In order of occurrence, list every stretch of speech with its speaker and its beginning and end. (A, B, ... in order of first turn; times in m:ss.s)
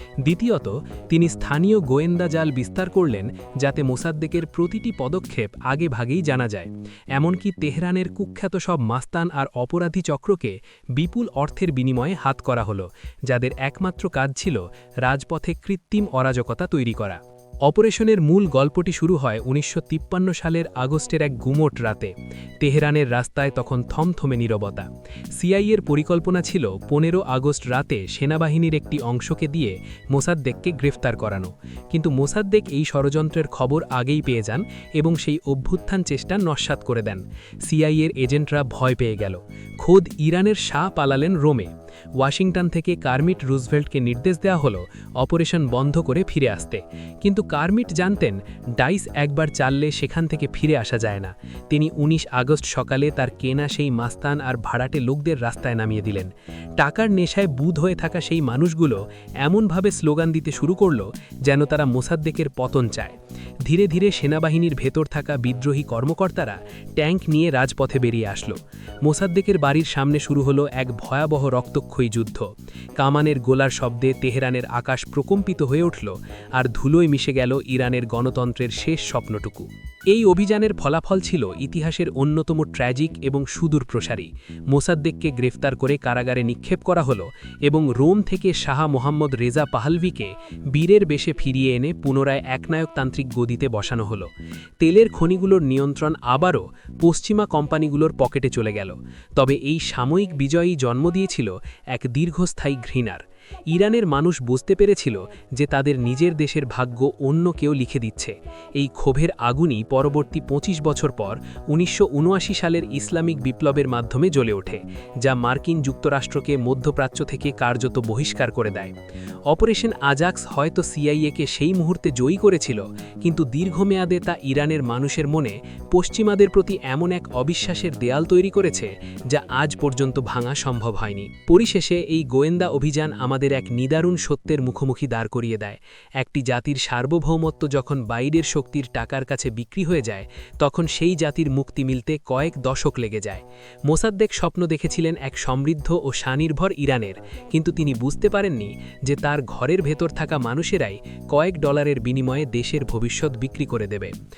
0:00.2-1:59.0 A
1:59.5-2:34.1 A